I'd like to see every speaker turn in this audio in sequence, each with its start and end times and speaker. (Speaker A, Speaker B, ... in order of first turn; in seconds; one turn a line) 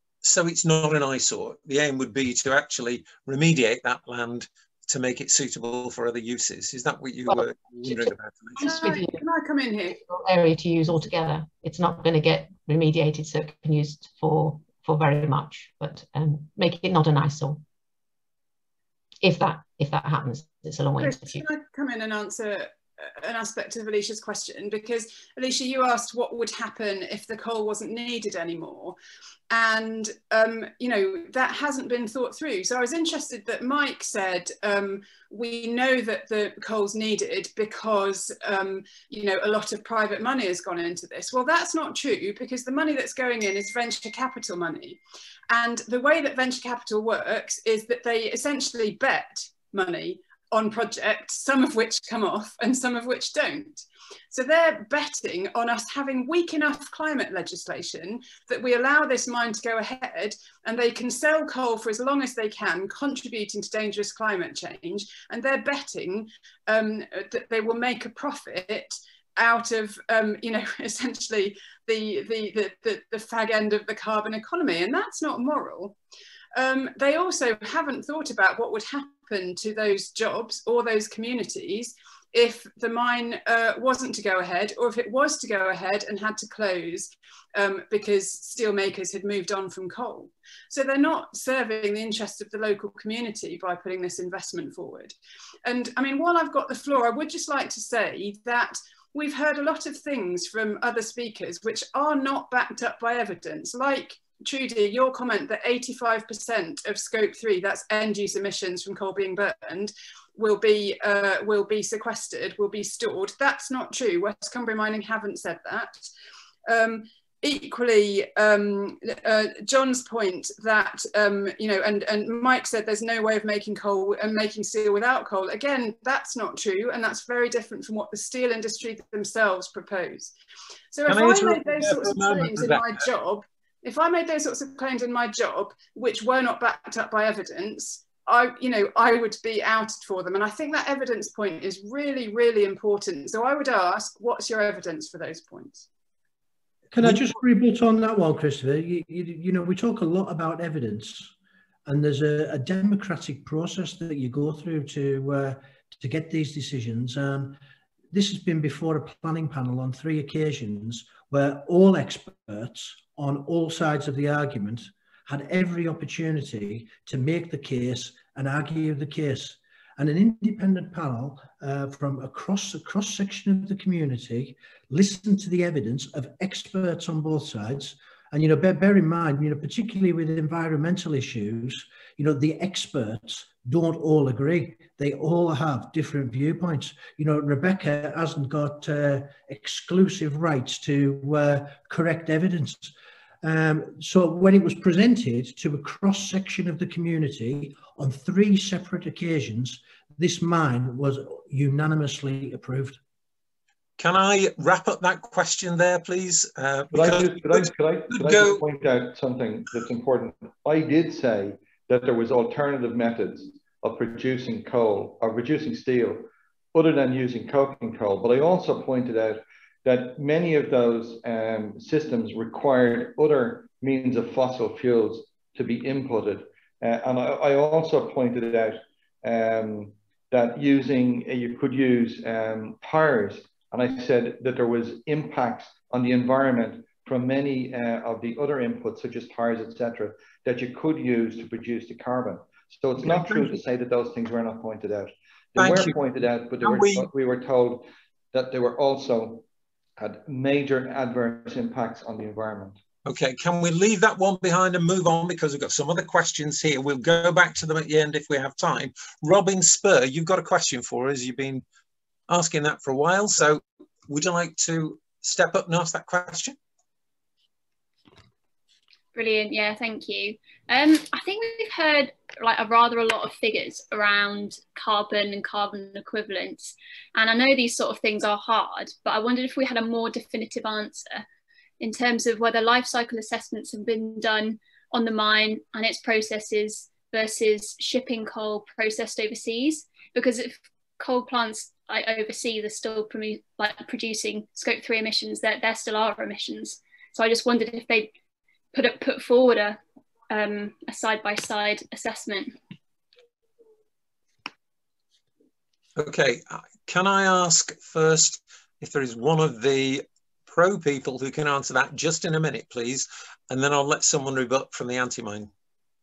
Speaker A: 0.2-8.6
Speaker B: 7.3-9.2
Speaker C: 8.6-10.0
Speaker B: 9.9-17.6
Speaker B: 19.2-21.4
Speaker C: 21.0-29.0
Speaker C: 29.5-45.0
Speaker C: 45.5-76.0
Speaker C: 76.5-116.0
Speaker C: 116.7-130.3
Speaker C: 130.9-145.9
Speaker A: 131.1-133.0
Speaker D: 146.9-151.3
Speaker A: 147.0-147.3
Speaker D: 151.8-157.6
Speaker D: 158.1-203.0
Speaker A: 204.0-208.6
Speaker E: 206.9-249.4
Speaker A: 243.0-243.5
Speaker A: 245.6-245.9
Speaker A: 246.6-247.1
Speaker E: 250.0-252.8
Speaker A: 253.0-261.6
Speaker A: 262.3-266.5
Speaker F: 269.1-281.2
Speaker F: 281.8-298.1
Speaker F: 298.7-299.8
Speaker F: 300.3-302.6
Speaker A: 305.9-315.5